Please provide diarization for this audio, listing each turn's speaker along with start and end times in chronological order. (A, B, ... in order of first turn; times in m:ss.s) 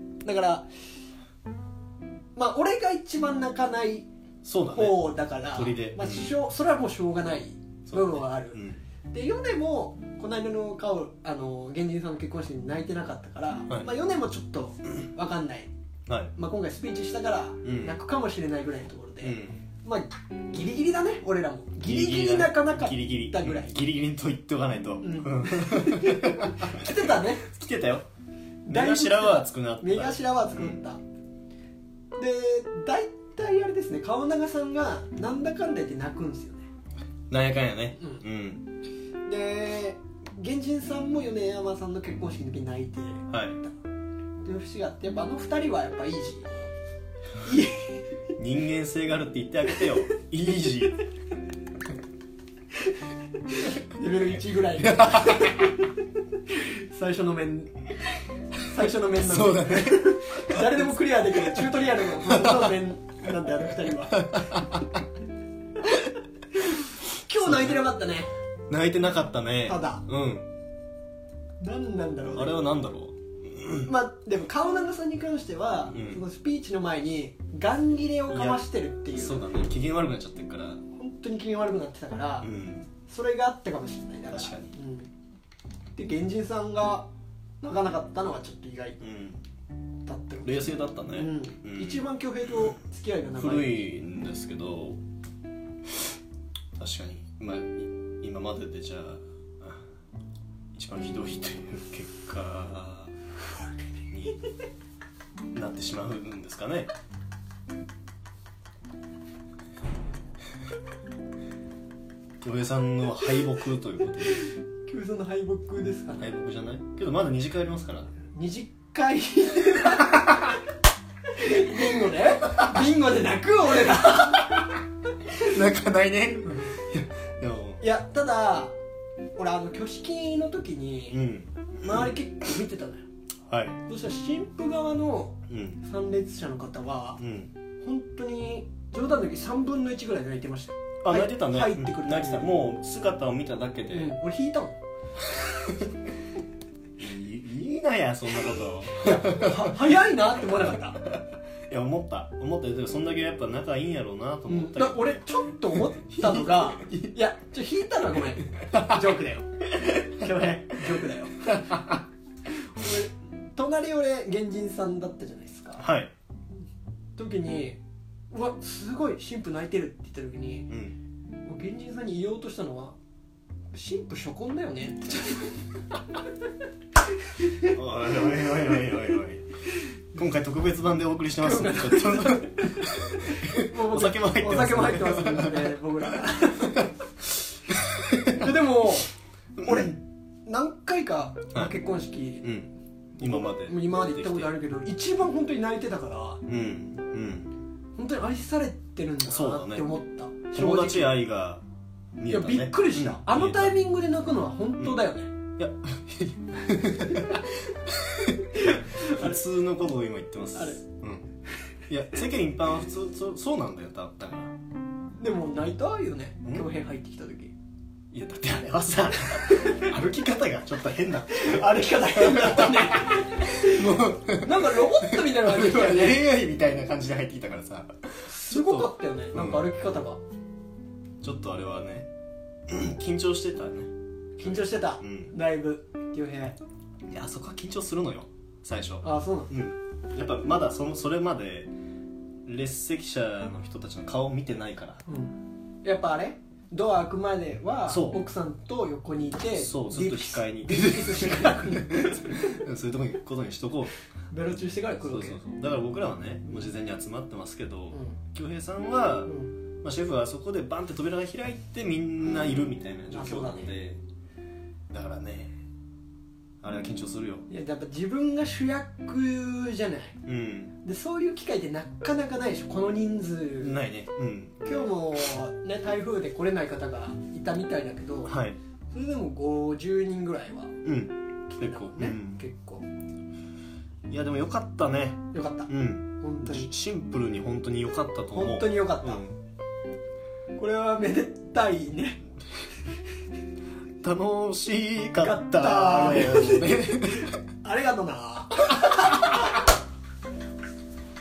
0:00.2-0:00.7 A
0:02.4-0:04.1 A
0:04.4-0:06.3 B
0:04.7-0:15.7 A
0:07.9-0:08.8 B
0:16.1-0:16.3 B
0:16.3-0:23.7 A
0:17.6-0:18.0 B
0:19.2-0:19.6 B
0:21.8-0:28.1 B
0:25.0-0:27.5 A
0:28.7-0:31.0 A
0:28.7-0:30.8 B
0:32.2-0:36.7 A
0:37.3-0:38.7 B
0:39.3-0:43.8 A
0:43.3-0:43.6 B
0:44.4-0:46.6 A
0:47.4-0:48.0 A
0:48.4-0:51.0 B
0:53.5-0:55.9 A
0:54.8-0:55.5 B
0:56.5-0:57.8 A
0:58.6-1:04.6 A
0:59.2-1:00.8 B
1:01.4-1:01.7 B
1:02.2-1:02.8 B
1:04.2-1:05.0 B
1:07.1-1:08.3 A
1:07.4-1:07.9 B
1:08.7-1:10.5 B
1:09.7-1:10.0 A
1:11.6-1:12.6 A
1:12.3-1:13.9 B
1:13.8-1:19.4 A
1:15.9-1:16.2 B
1:18.3-1:20.8 B
1:20.9-1:22.5 A
1:22.4-1:22.9 B
1:23.0-1:25.1 A
1:24.3-1:24.7 B
1:26.0-1:27.1 A
1:27.6-1:29.0 A
1:29.0-1:29.4 B
1:30.0-1:33.8 A
1:30.4-1:32.7 B
1:33.4-1:35.0 B
1:36.8-1:39.8 B
1:40.7-1:43.1 B
1:44.1-1:44.4 B
1:45.5-1:46.9 B
1:52.4-1:54.5 B
1:54.9-1:56.3 A
1:56.2-1:58.1 B
1:58.3-2:00.6 A
2:01.3-2:04.6 A
2:05.3-2:07.8 B
2:07.8-2:08.8 A
2:09.4-2:11.2 A
2:11.1-2:12.1 B
2:11.8-2:13.1 A
2:13.5-2:13.8 B
2:13.9-2:17.2 A
2:15.5-2:15.8 B
2:17.2-2:17.5 B
2:17.8-2:22.5 A
2:21.0-2:24.1 B
2:23.9-2:24.8 A
2:27.0-2:29.8 B
2:29.0-2:31.0 A
2:31.1-2:35.2 B
2:34.5-2:41.8 A
2:36.1-2:37.1 B
2:42.7-2:45.9 A
2:45.8-2:46.1 B
2:47.2-2:47.8 A
2:48.3-2:50.7 A
2:50.7-2:51.0 B
2:51.4-2:53.0 A
2:53.7-2:55.6 A
2:57.7-2:59.4 B
3:00.1-3:05.8 B
3:01.4-3:06.9 A
3:07.8-3:08.5 B
3:08.3-3:09.1 A
3:09.6-3:09.9 B
3:09.6-3:12.5 A
3:12.4-3:14.5 B
3:13.2-3:16.4 A
3:16.5-3:17.5 B
3:18.0-3:21.2 A
3:19.2-3:19.9 B
3:20.5-3:21.6 B
3:22.2-3:23.8 B
3:22.3-3:25.3 A
3:25.6-3:31.3 B
3:28.6-3:29.4 A
3:31.9-3:34.6 B
3:35.2-3:37.5 A
3:38.1-3:49.7 B
3:41.3-3:46.3 A
3:48.3-3:50.2 A
3:51.2-3:52.1 B
3:52.7-3:55.3 B
3:54.4-3:56.6 A
3:57.1-4:01.7 B
3:59.0-3:59.5 A
4:02.4-4:05.0 B
4:05.1-4:12.5 A
4:07.9-4:08.2 B
4:09.5-4:13.9 B
4:14.3-4:15.4 A
4:15.0-4:24.0 B
4:19.3-4:19.5 A
4:23.1-4:23.7 A
4:24.9-4:25.5 B
4:26.6-4:27.5 B
4:27.5-4:30.2 A
4:30.2-4:30.7 B
4:30.8-4:33.8 A
4:33.6-4:34.8 B
4:34.6-4:38.4 A
4:38.3-4:38.6 B
4:38.9-4:40.8 A
4:40.8-4:42.4 B
4:41.5-4:42.9 A
4:44.1-4:49.4 B
4:45.3-4:46.7 A
4:48.3-4:49.2 A
4:50.5-4:52.2 A
4:54.0-4:57.4 B
4:55.2-4:59.3 A